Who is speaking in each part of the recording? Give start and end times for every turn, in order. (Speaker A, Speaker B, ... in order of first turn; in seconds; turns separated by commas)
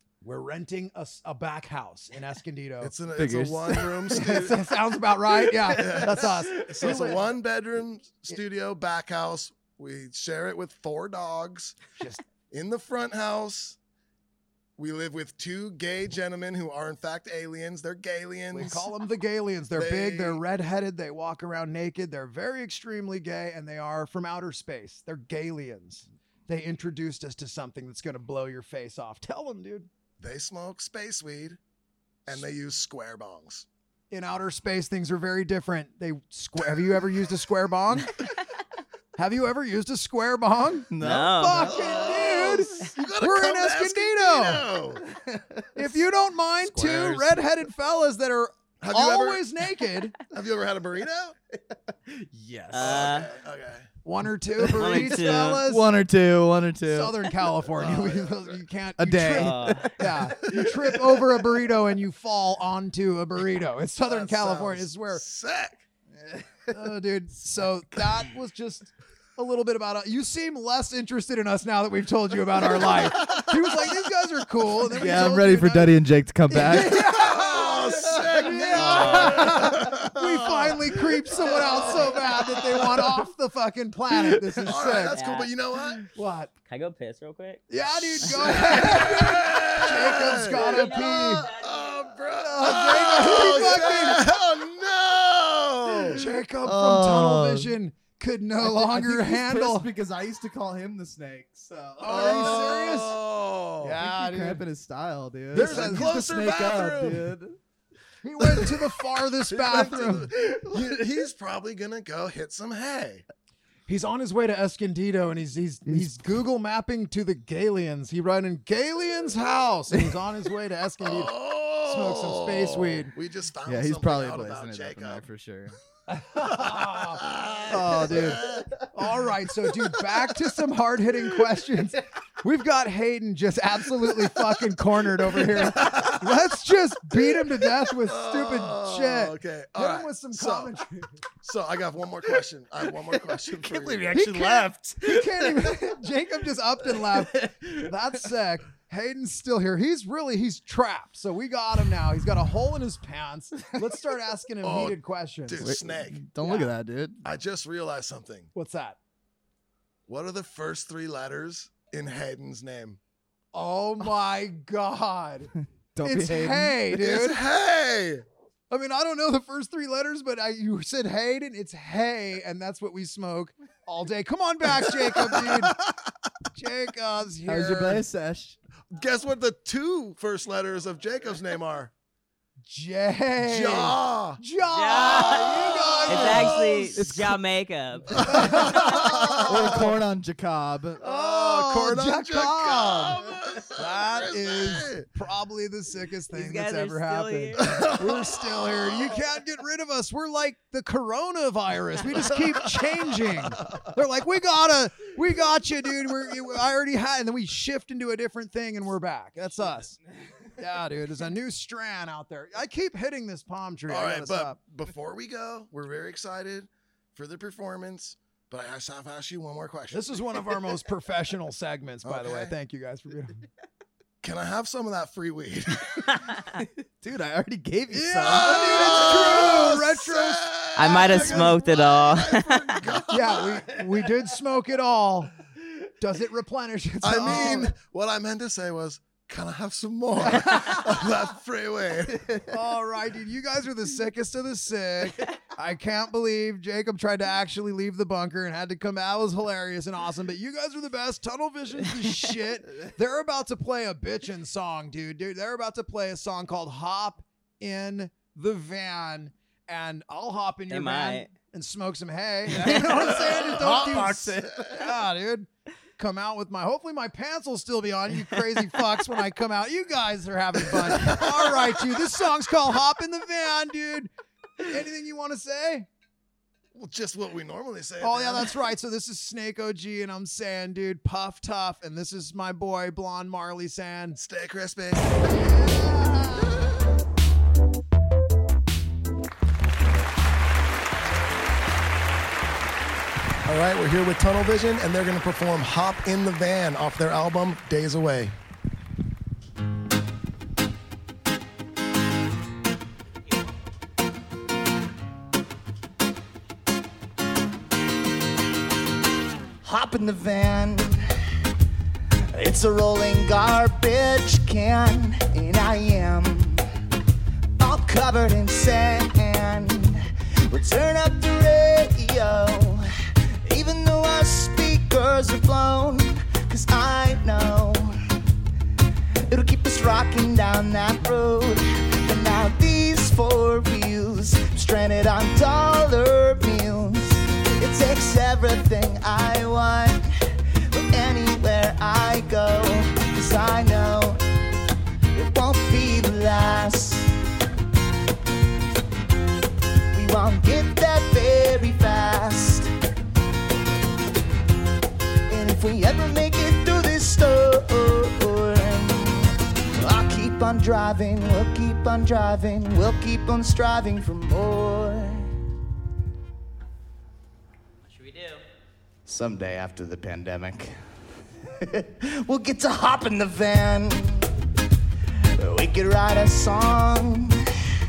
Speaker A: 0.2-2.9, Speaker B: 2.8-4.6, Speaker C: 3.2-4.2, Speaker A: 4.1-7.2, Speaker C: 5.4-7.1, Speaker B: 5.7-11.8, Speaker A: 12.0-12.2, Speaker B: 12.5-13.8, Speaker B: 14.8-18.9, Speaker A: 18.5-29.9, Speaker B: 19.8-20.4, Speaker B: 30.2-31.6, Speaker B: 32.3-33.7, Speaker A: 34.1-38.2, Speaker A: 39.2-44.7, Speaker C: 40.9-42.6, Speaker D: 41.0-42.0, Speaker B: 41.7-45.0, Speaker C: 45.0-46.0, Speaker A: 45.8-50.1, Speaker C: 46.6-47.5, Speaker B: 48.8-49.4, Speaker B: 50.3-51.4, Speaker C: 51.9-53.3, Speaker D: 52.7-53.3, Speaker B: 52.8-53.9, Speaker A: 54.0-55.9, Speaker C: 54.6-57.2, Speaker D: 54.7-55.6, Speaker A: 56.9-65.2, Speaker B: 57.7-58.6, Speaker C: 59.0-61.0, Speaker D: 59.3-59.9, Speaker B: 64.1-65.8, Speaker C: 66.2-66.7, Speaker A: 66.7-85.2, Speaker B: 72.6-73.9, Speaker C: 74.9-77.1, Speaker B: 76.8-83.0, Speaker C: 78.1-79.3, Speaker D: 78.8-79.5, Speaker C: 81.5-82.2, Speaker C: 84.3-84.8, Speaker B: 84.6-86.0, Speaker D: 85.1-85.5, Speaker A: 86.2-86.5, Speaker D: 86.7-87.6, Speaker A: 87.7-91.5, Speaker B: 87.9-96.2, Speaker D: 90.5-92.1, Speaker A: 92.4-94.3, Speaker C: 96.1-97.7, Speaker A: 96.2-99.9, Speaker C: 98.6-102.6, Speaker A: 102.0-103.2, Speaker B: 102.0-104.0, Speaker A: 103.8-104.7, Speaker C: 104.0-107.6, Speaker A: 105.5-107.1, Speaker B: 105.5-107.4, Speaker A: 108.2-110.3, Speaker B: 108.4-108.8, Speaker B: 109.4-113.2, Speaker C: 110.5-110.9, Speaker A: 113.9-123.1, Speaker C: 115.9-116.1, Speaker B: 121.0-125.2, Speaker C: 123.7-125.8, Speaker A: 126.1-141.2, Speaker B: 126.5-128.7, Speaker C: 127.7-128.6, Speaker B: 135.6-136.3, Speaker B: 138.0-140.8, Speaker B: 141.4-144.1, Speaker C: 143.1-145.8, Speaker A: 144.1-155.7, Speaker C: 147.0-147.9, Speaker B: 154.6-156.2, Speaker C: 155.6-157.2, Speaker A: 156.4-156.7, Speaker B: 157.2-158.5, Speaker A: 158.6-159.0, Speaker B: 160.1-163.0, Speaker A: 163.5-167.4, Speaker C: 165.9-166.8, Speaker B: 166.9-168.2, Speaker A: 168.7-175.8, Speaker B: 174.7-175.9, Speaker A: 176.5-178.1, Speaker C: 177.5-178.6, Speaker B: 178.9-181.9, Speaker A: 182.6-186.6, Speaker B: 183.4-184.4, Speaker D: 184.7-189.3, Speaker B: 185.0-187.2, Speaker B: 188.1-190.0, Speaker A: 188.2-189.4, Speaker C: 189.4-191.0, Speaker B: 191.0-195.1, Speaker A: 191.0-193.2, Speaker A: 193.8-210.0, Speaker D: 196.3-197.9, Speaker B: 197.7-199.2, Speaker B: 202.2-202.5, Speaker A: 210.6-214.6, Speaker B: 213.9-220.2, Speaker A: 219.9-223.4, Speaker B: 222.0-222.5, Speaker B: 224.2-226.3, Speaker C: 227.0-229.5, Speaker A: 227.9-230.5, Speaker B: 228.2-233.7, Speaker D: 230.8-232.8, Speaker A: 233.1-235.3, Speaker A: 236.0-237.7, Speaker B: 237.0-242.5, Speaker A: 240.3-240.9, Speaker A: 242.5-275.9, Speaker D: 260.7-261.3, Speaker B: 262.9-264.9, Speaker C: 263.5-264.3, Speaker B: 270.9-271.3, Speaker B: 276.7-278.5, Speaker A: 278.0-284.2, Speaker B: 284.2-286.8, Speaker B: 293.4-298.4, Speaker E: 309.6-311.0, Speaker E: 312.3-316.7, Speaker E: 317.6-322.9, Speaker E: 323.4-328.0, Speaker E: 329.3-340.1, Speaker E: 340.7-344.2, Speaker E: 345.1-347.1, Speaker E: 349.9-352.7, Speaker E: 355.3-365.3, Speaker D: 367.9-368.4, Speaker C: 369.1-370.8, Speaker E: 371.6-374.3, Speaker E: 375.4-377.4